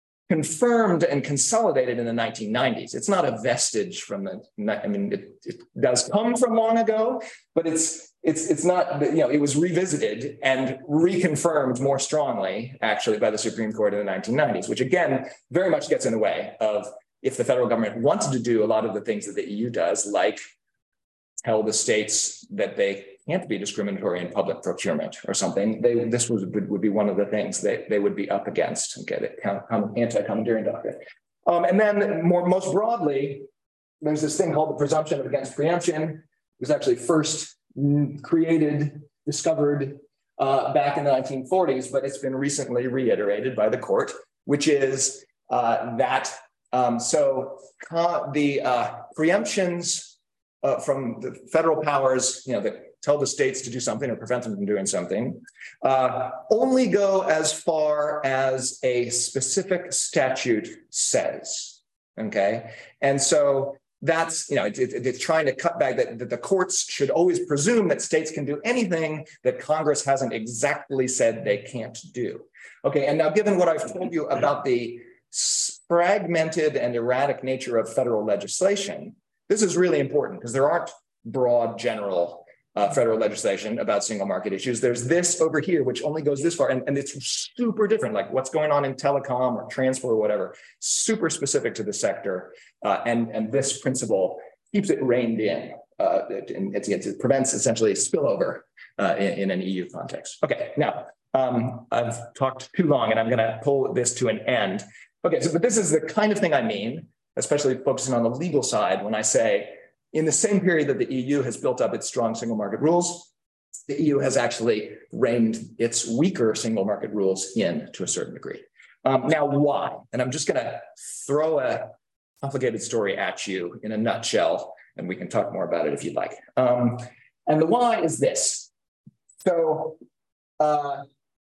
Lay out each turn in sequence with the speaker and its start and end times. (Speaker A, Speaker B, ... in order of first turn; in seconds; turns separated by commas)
Speaker A: 0.3-20.4, Speaker A: 21.4-33.5, Speaker A: 34.0-113.3, Speaker A: 113.9-128.7, Speaker A: 129.4-130.0, Speaker A: 130.6-131.0